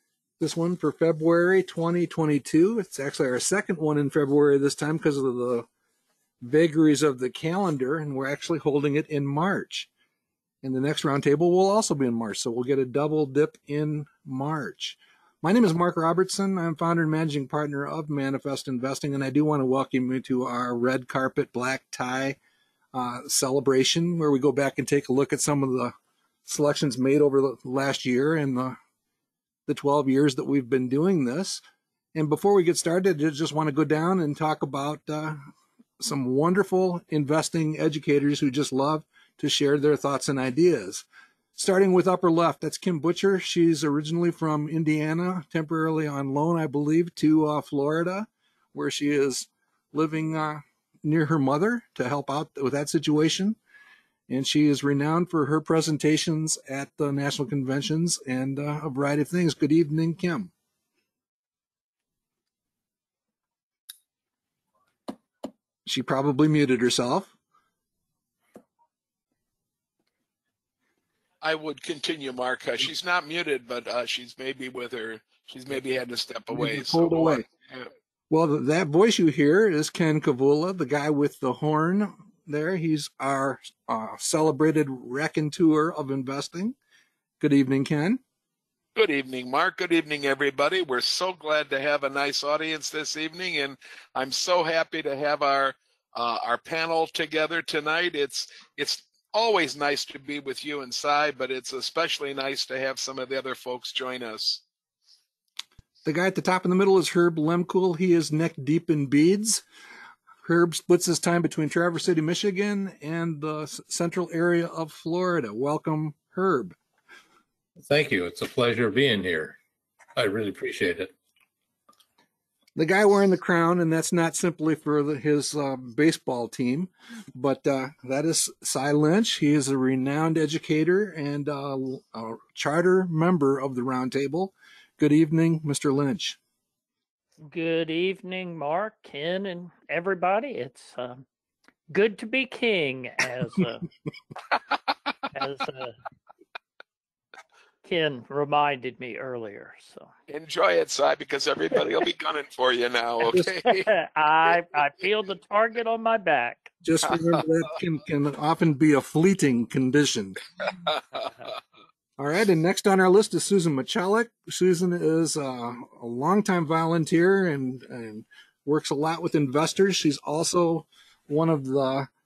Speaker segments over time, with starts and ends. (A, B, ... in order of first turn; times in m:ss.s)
0:00.4-0:05.7 A
0:06.4-0:09.9 A
0:10.6-0:22.4 A
0:22.9-0:25.9 A
0:26.4-0:28.8 A
0:29.7-0:31.6 A
0:32.1-0:35.4 A
0:36.0-0:41.0 A
0:41.6-0:53.6 A
0:54.3-1:00.5 A
1:05.8-1:07.3 A
1:11.4-1:17.9 B
1:16.5-1:17.4 A
1:18.3-1:26.7 A
1:27.4-1:28.2 A
1:29.0-1:44.6 B
1:46.0-1:49.6 A
1:50.4-1:56.7 A
1:57.8-1:59.6 C
2:00.1-2:01.1 C
2:02.8-2:16.4 A
2:17.5-2:21.2 D
2:21.9-2:23.8 D
2:25.3-2:25.9 D
2:27.8-2:30.1 D
2:30.3-2:33.9 B
2:33.3-2:36.7 D
2:36.8-2:40.4 A
2:42.2-2:52.1 A